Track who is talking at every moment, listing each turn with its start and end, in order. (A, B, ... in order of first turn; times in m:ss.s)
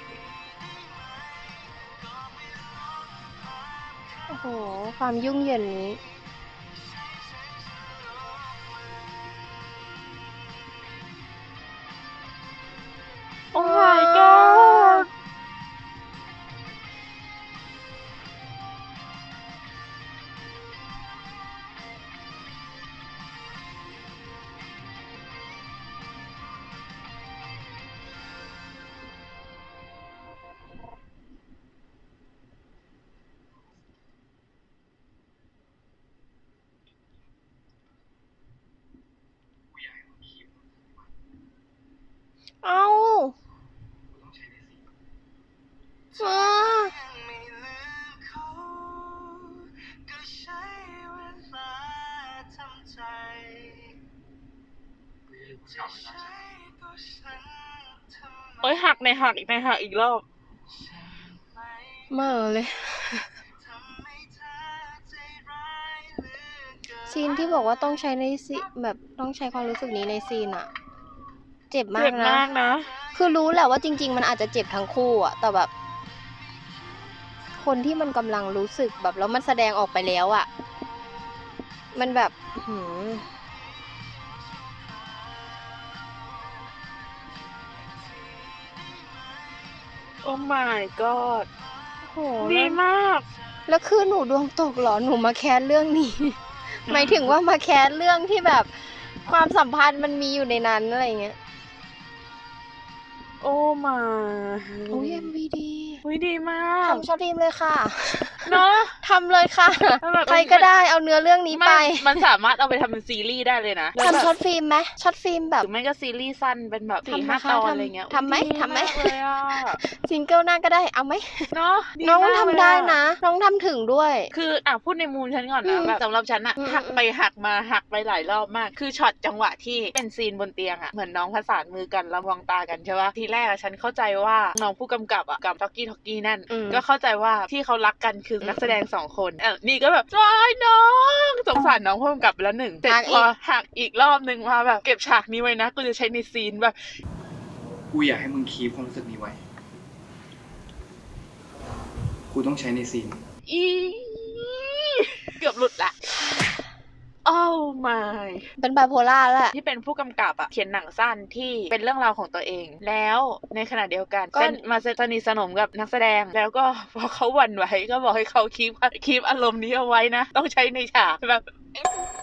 0:04.3-0:06.0 A
0:13.5-0:15.1 B
0:13.5-0:15.1 A
0:39.8-0:40.3 C
0:42.6-0:43.4 A
0:44.2-0:44.5 C
0:46.2-0:47.0 A
0:55.4-0:56.3 C
0:58.6-1:00.2 B
1:02.1-1:03.3 A
1:07.0-1:10.7 A
1:11.7-1:12.5 A
1:12.0-1:12.9 B
1:13.1-1:15.7 A
1:17.6-1:20.5 A
1:21.9-1:23.3 A
1:30.2-1:31.5 B
1:32.0-1:32.8 A
1:32.4-1:33.2 B
1:33.7-1:38.7 A
1:36.9-1:37.3 B
1:39.2-1:41.4 A
1:43.4-1:45.3 B
1:44.9-1:46.0 A
1:46.0-1:47.1 B
1:46.8-1:52.1 A
1:48.4-1:49.0 B
1:50.0-1:50.7 B
1:51.5-1:54.3 B
1:54.0-1:55.7 A
1:55.6-1:59.8 B
1:57.0-1:59.2 A
1:59.8-2:04.3 A
2:01.5-2:03.0 B
2:04.3-2:26.8 B
2:05.6-2:06.0 A
2:06.6-2:07.0 A
2:16.5-2:16.8 A
2:18.4-2:18.8 A
2:22.8-2:23.3 A
2:27.9-2:29.4 C
2:32.3-2:33.2 C
2:33.5-2:36.0 B
2:37.2-2:38.5 B
2:38.6-2:39.6 A
2:39.5-2:51.4 B
2:44.3-2:44.6 A